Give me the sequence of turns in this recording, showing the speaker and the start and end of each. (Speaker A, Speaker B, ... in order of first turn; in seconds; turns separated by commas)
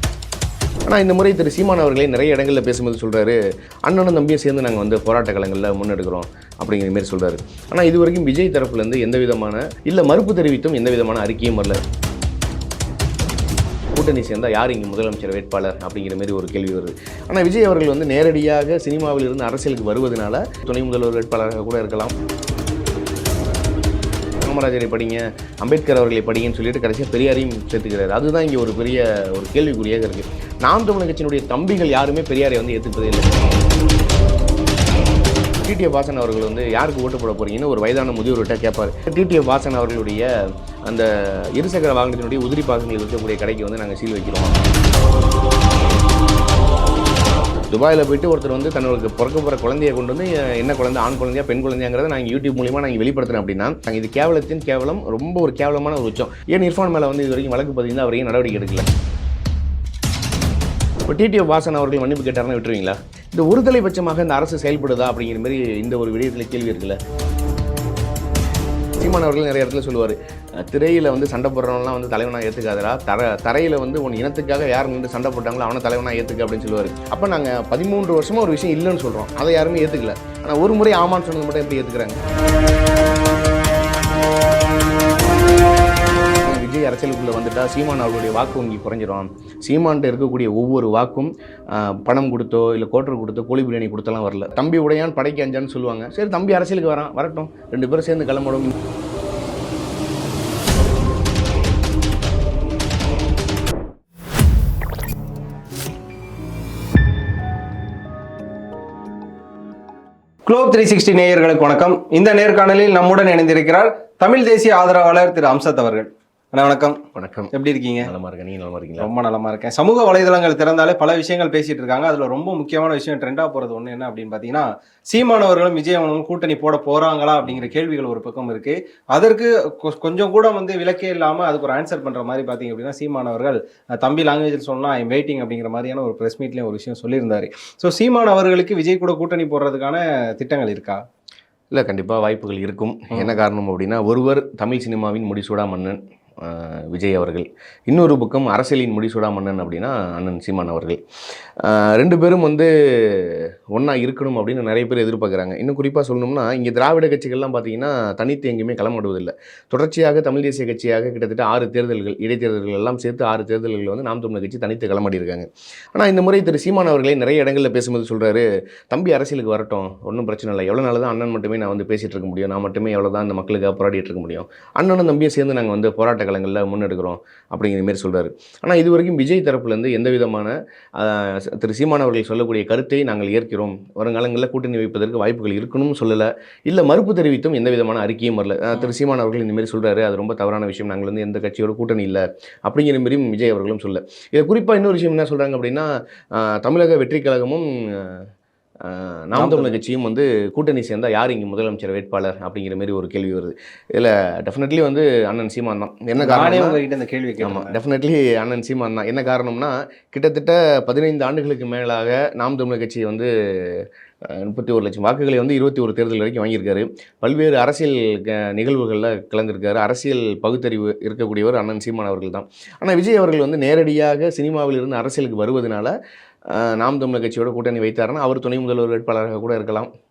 Speaker A: 0.9-11.8, Speaker A: 13.9-22.1, Speaker A: 24.4-33.5, Speaker A: 35.6-40.3, Speaker A: 40.9-44.6, Speaker A: 47.7-58.9, Speaker A: 61.1-67.0, Speaker A: 69.0-82.2, Speaker A: 86.4-98.7, Speaker B: 110.5-117.0, Speaker A: 117.2-117.5, Speaker B: 117.5-118.1, Speaker A: 118.0-119.1, Speaker B: 119.0-141.0, Speaker A: 141.7-151.0, Speaker B: 143.1-143.4, Speaker A: 151.6-198.3, Speaker A: 198.8-206.8, Speaker B: 199.3-199.8, Speaker B: 206.2-207.8, Speaker A: 207.4-225.9, Speaker A: 226.5-229.9